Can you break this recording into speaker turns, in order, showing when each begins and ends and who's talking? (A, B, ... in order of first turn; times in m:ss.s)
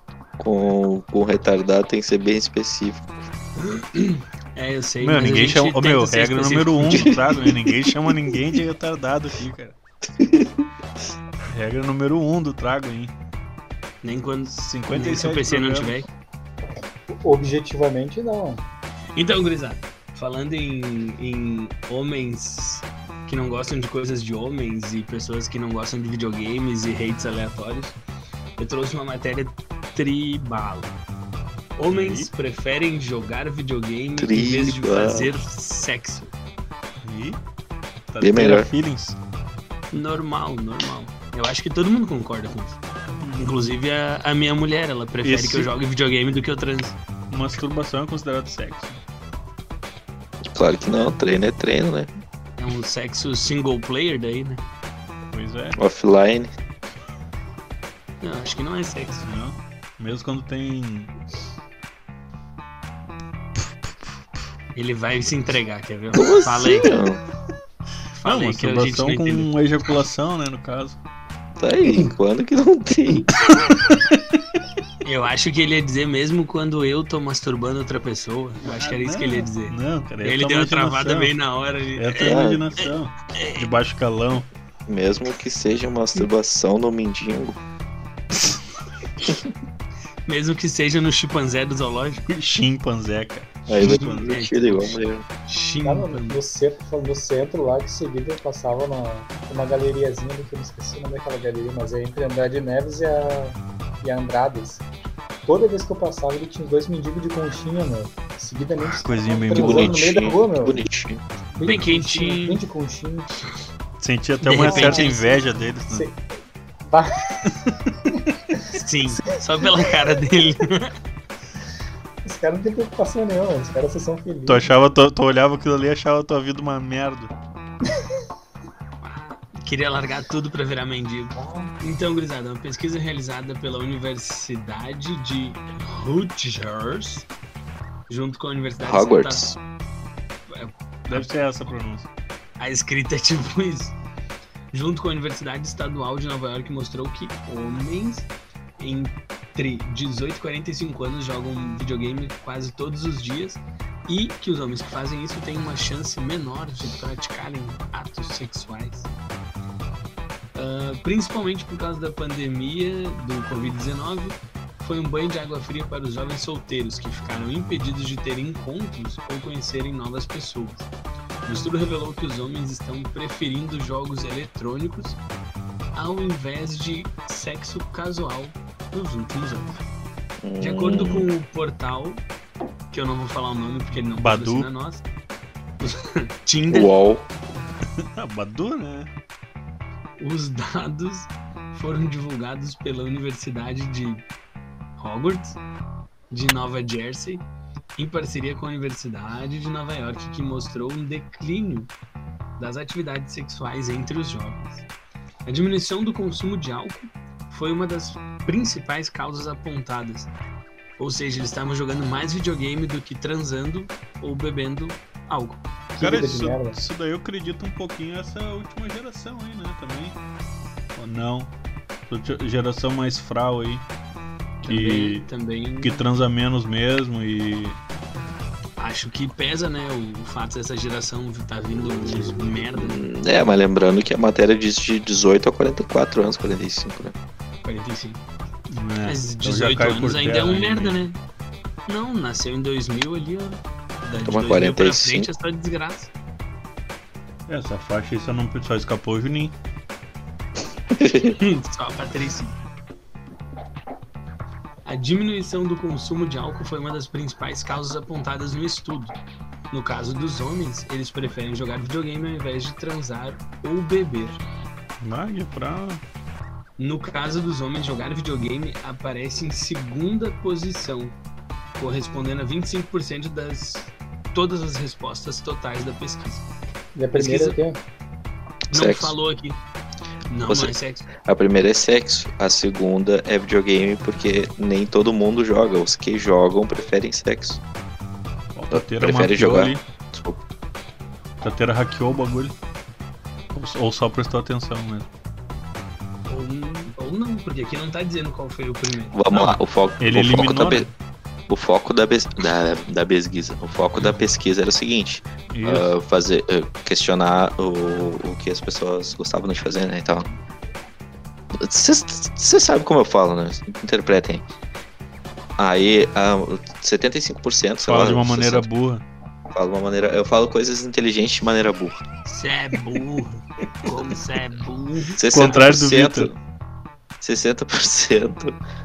0:00.4-0:03.0 A
0:03.6-0:07.3 B
0:05.0-0:09.8 C
0:10.2-0:10.6 A
0:11.5-0:13.1 C
0:14.0-0:16.1 B
0:14.5-0:16.0 C
0:17.2-0:18.6 D
0:19.1-0:28.0 B
0:28.6-0:30.9 B
0:31.8-0:36.3 B
0:31.9-0:32.3 C
0:34.2-0:35.3 A
0:37.0-0:37.4 C
0:38.1-0:39.2 C
0:38.2-0:38.7 A
0:39.9-0:42.8 B
0:43.2-0:43.8 C
0:43.4-0:47.0 B
0:45.2-0:45.7 C
0:47.3-0:49.0 C
0:50.5-0:52.1 A
0:52.6-0:54.6 B
0:55.3-0:55.8 C
0:55.8-0:56.5 A
0:58.2-0:59.2 B
0:59.2-1:01.1 C
1:04.7-1:07.0 B
1:06.1-1:07.2 A
1:08.1-1:09.5 B
1:08.2-1:11.0 C
1:11.6-1:13.3 A
1:13.7-1:14.2 C
1:15.0-1:23.6 B
1:18.6-1:21.3 C
1:22.0-1:24.5 C
1:22.2-1:22.6 A
1:24.9-1:27.6 A
1:30.2-1:32.2 B
1:32.3-1:34.4 C
1:33.7-1:35.2 A
1:33.8-1:36.4 B
1:35.8-1:44.8 D
1:45.4-1:50.8 D
1:48.8-1:50.1 C
1:49.5-1:51.2 A
1:51.6-1:53.3 D
1:51.6-1:52.6 B
1:54.0-1:56.1 C
1:54.4-1:55.4 B
1:54.6-1:55.1 D
1:55.9-1:56.2 D
1:56.9-1:58.8 D
1:57.5-1:57.7 C
1:58.7-2:00.9 B
2:02.2-2:04.7 D
2:04.5-2:07.3 C
2:09.0-2:17.3 B
2:11.3-2:11.7 D
2:18.1-2:19.5 B
2:18.8-2:19.6 A
2:20.5-2:21.3 B
2:21.1-2:22.1 C
2:22.6-2:23.9 B
2:24.7-2:28.3 B
2:28.8-2:39.1 B
2:40.5-2:50.9 B
2:51.4-2:55.2 B
2:55.9-2:59.8 B
3:00.4-3:01.3 A
3:00.6-3:02.2 B
3:02.9-3:05.0 B
3:04.2-3:04.7 C
3:05.8-3:06.9 B
3:06.7-3:07.3 A
3:08.2-3:09.1 C
3:10.2-3:14.2 B
3:15.0-3:15.6 B
3:16.3-3:17.4 B
3:18.0-3:21.9 B
3:22.6-3:24.8 B
3:25.4-3:30.3 B
3:31.0-3:35.6 B
3:35.9-3:36.8 D
3:36.0-3:40.2 C
3:41.0-3:41.5 C
3:42.1-3:43.9 C
3:44.6-3:46.1 B
3:44.7-3:45.3 C
3:45.8-3:47.8 C
3:48.8-3:53.1 B
3:52.7-3:57.1 A
3:57.6-3:58.2 B
3:58.7-4:01.0 C
3:59.0-4:01.2 B
4:01.9-4:06.1 B
4:04.2-4:05.3 A
4:07.5-4:09.5 C
4:10.9-4:11.4 A
4:11.3-4:12.5 B
4:14.8-4:19.1 B
4:19.7-4:24.4 B
4:25.0-4:26.0 C
4:26.8-4:31.1 B
4:31.8-4:36.4 B
4:36.9-4:37.8 D
4:37.1-4:37.6 B
4:38.7-4:39.6 B
4:38.7-4:39.2 A
4:40.3-4:41.1 B
4:40.5-4:47.6 A
4:48.5-4:49.8 C
4:48.7-4:50.4 A
4:51.4-4:52.5 C
4:53.5-4:55.1 C
4:56.3-4:59.5 B
4:59.1-5:00.9 A
5:00.0-5:00.9 C
5:01.5-5:10.3 A
5:05.5-5:05.9 C
5:11.5-5:14.4 A
5:15.6-5:18.7 A
5:17.8-5:19.0 C
5:19.5-5:22.0 A
5:22.2-5:25.2 B
5:25.2-5:26.4 A
5:25.2-5:26.3 C
5:27.2-5:28.6 A